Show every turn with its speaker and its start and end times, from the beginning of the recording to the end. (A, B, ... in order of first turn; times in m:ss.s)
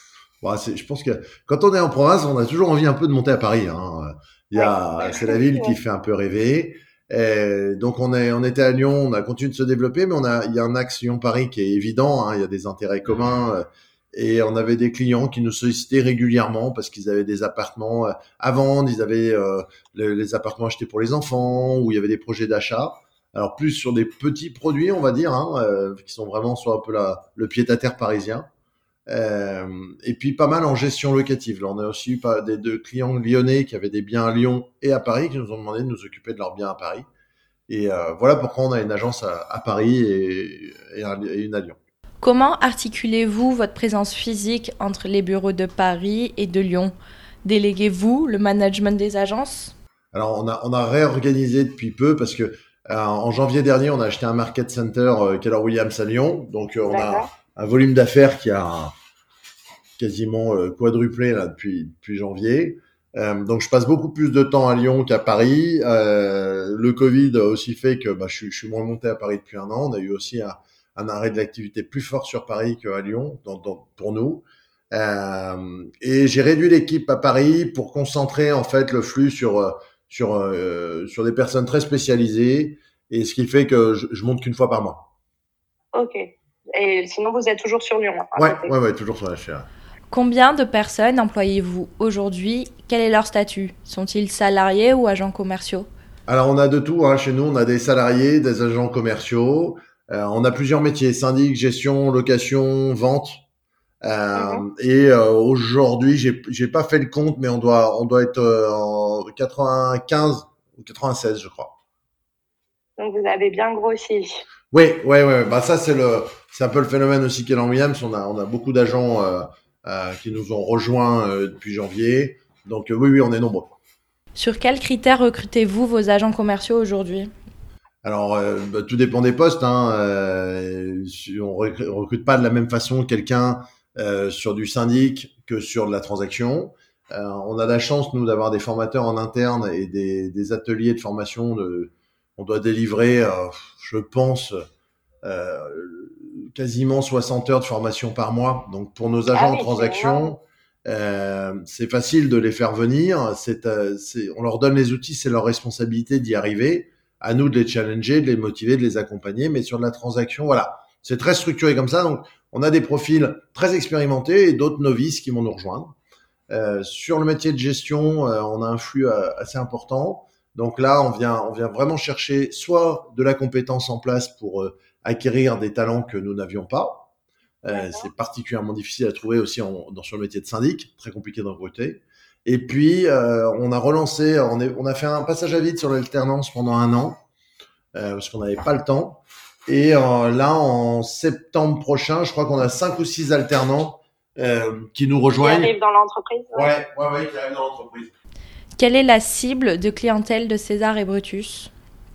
0:00.4-0:28.5 A
0:04.6-0:05.8 B
0:29.1-0:37.1 A
0:37.7-0:41.8 A
0:42.2-0:46.9 C
0:47.4-0:49.7 C
0:50.1-0:58.9 A
0:56.9-0:57.3 B
1:00.0-1:25.1 A
1:25.9-1:26.2 B
1:26.7-1:28.7 B
1:28.4-1:29.7 A
1:30.1-1:35.9 C
1:36.3-1:43.4 A
1:44.0-1:51.8 A
1:44.4-1:44.6 B
1:53.0-1:54.4 B
1:54.7-2:03.8 A
2:04.4-2:07.3 C
2:08.0-2:24.6 A
2:25.2-2:45.9 A
2:29.3-2:30.4 B
2:46.5-2:57.1 A
2:57.6-3:07.2 A
2:57.7-2:58.1 B
3:08.0-3:15.7 A
3:15.4-3:16.7 B
3:16.5-3:18.1 A
3:18.8-3:21.7 C